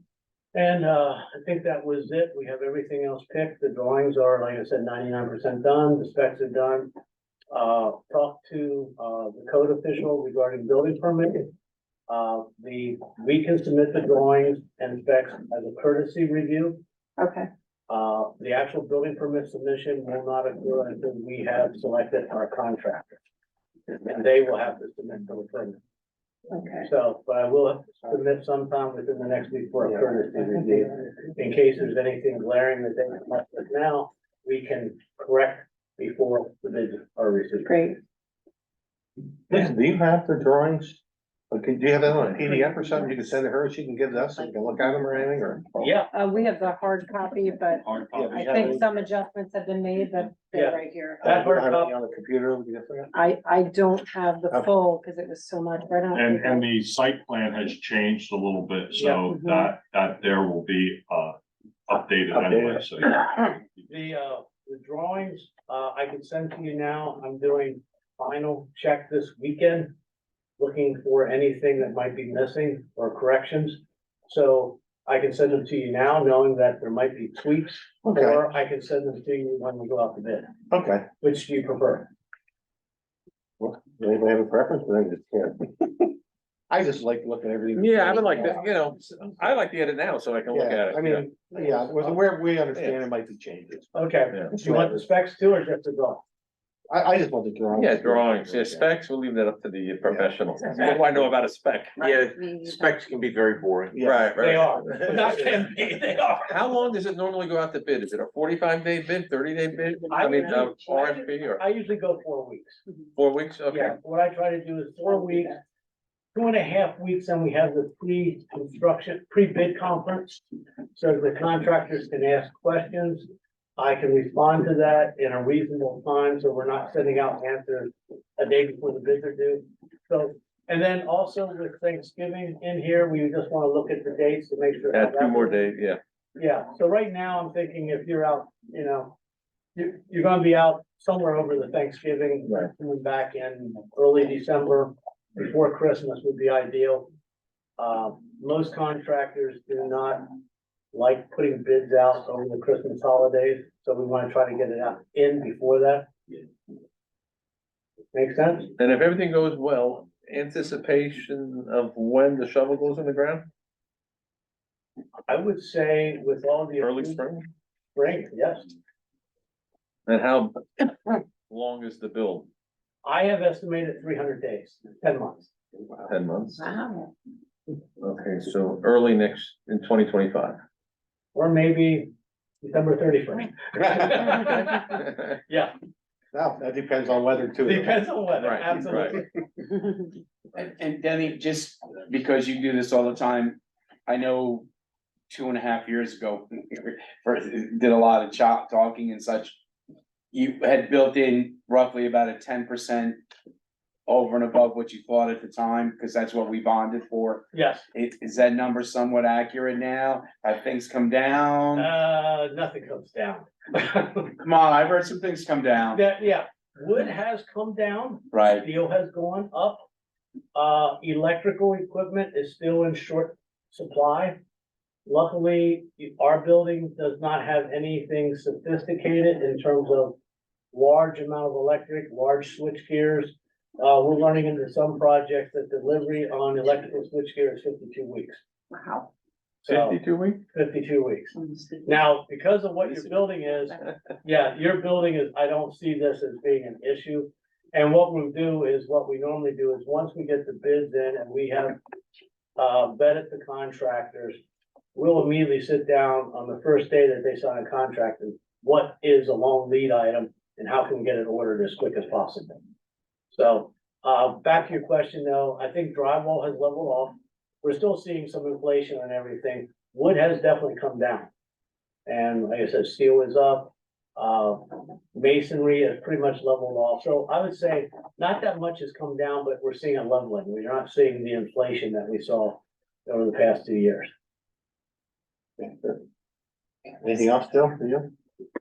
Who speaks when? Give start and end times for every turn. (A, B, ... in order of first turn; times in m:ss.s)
0:00.5-0:06.9 A
0:07.5-0:11.5 A
0:12.1-0:16.8 A
0:17.2-0:17.5 B
0:17.9-0:23.2 A
0:23.9-0:25.8 A
0:26.5-0:26.9 B
0:26.8-0:37.8 A
0:30.4-0:30.8 B
0:37.7-0:38.0 B
0:39.5-0:46.0 C
0:45.8-0:46.1 A
0:46.1-0:51.3 B
0:47.8-0:48.9 D
0:48.1-0:48.8 C
0:50.5-0:51.9 A
0:51.2-0:53.1 C
0:53.1-0:56.6 B
0:56.1-1:01.4 D
0:59.0-0:59.7 B
1:01.9-1:03.8 D
1:02.4-1:02.8 C
1:03.9-1:09.9 A
1:10.6-1:20.5 A
1:18.1-1:18.4 C
1:20.7-1:21.1 C
1:21.2-1:22.1 A
1:23.6-1:26.1 C
1:26.7-1:28.7 C
1:27.8-1:32.2 E
1:30.5-1:33.9 C
1:32.8-1:33.0 E
1:33.9-1:36.2 A
1:34.6-1:35.0 C
1:36.9-1:38.9 C
1:37.7-1:42.1 E
1:40.0-1:41.1 C
1:42.0-1:42.9 B
1:42.0-1:44.0 F
1:43.9-1:44.3 C
1:44.0-1:45.4 E
1:44.4-1:46.6 A
1:46.4-1:51.6 E
1:50.1-1:52.8 A
1:53.2-1:54.0 E
1:53.7-1:55.6 A
1:56.3-2:03.3 A
2:03.8-2:15.7 A
2:14.9-2:16.0 E
2:16.4-2:19.2 A
2:19.8-2:27.1 A
2:27.8-2:30.4 A
2:30.9-2:36.1 A
2:38.1-2:38.7 A
2:38.8-2:43.5 E
2:45.3-2:47.3 A
2:46.8-2:47.5 E
2:48.0-2:48.7 A
2:50.1-2:52.5 E
2:53.0-2:55.5 A
2:56.1-2:56.6 E
2:56.6-2:57.1 B
2:58.0-3:00.6 E
3:01.3-3:02.1 A
3:02.6-3:05.7 A
3:04.3-3:05.3 E
3:06.3-3:08.1 C
3:07.6-3:09.2 A
3:08.3-3:09.2 E
3:10.6-3:14.7 G
3:15.3-3:19.6 G
3:20.3-3:23.2 G
3:24.1-3:31.9 G
3:27.5-3:27.9 A
3:31.8-3:34.3 A
3:34.4-3:36.0 G
3:35.9-3:39.9 A
3:38.3-3:38.7 G
3:40.6-3:44.4 A
3:45.1-3:50.2 A
3:50.7-3:58.4 A
3:58.7-3:59.1 B
3:59.6-4:00.0 A
3:59.7-4:00.4 E
4:00.5-4:01.3 A
4:01.4-4:01.8 B
4:01.8-4:11.8 A
4:12.6-4:14.4 A
4:15.0-4:22.6 A
4:23.3-4:31.3 A
4:32.1-4:44.1 A
4:45.6-4:46.0 C
4:47.0-4:48.1 C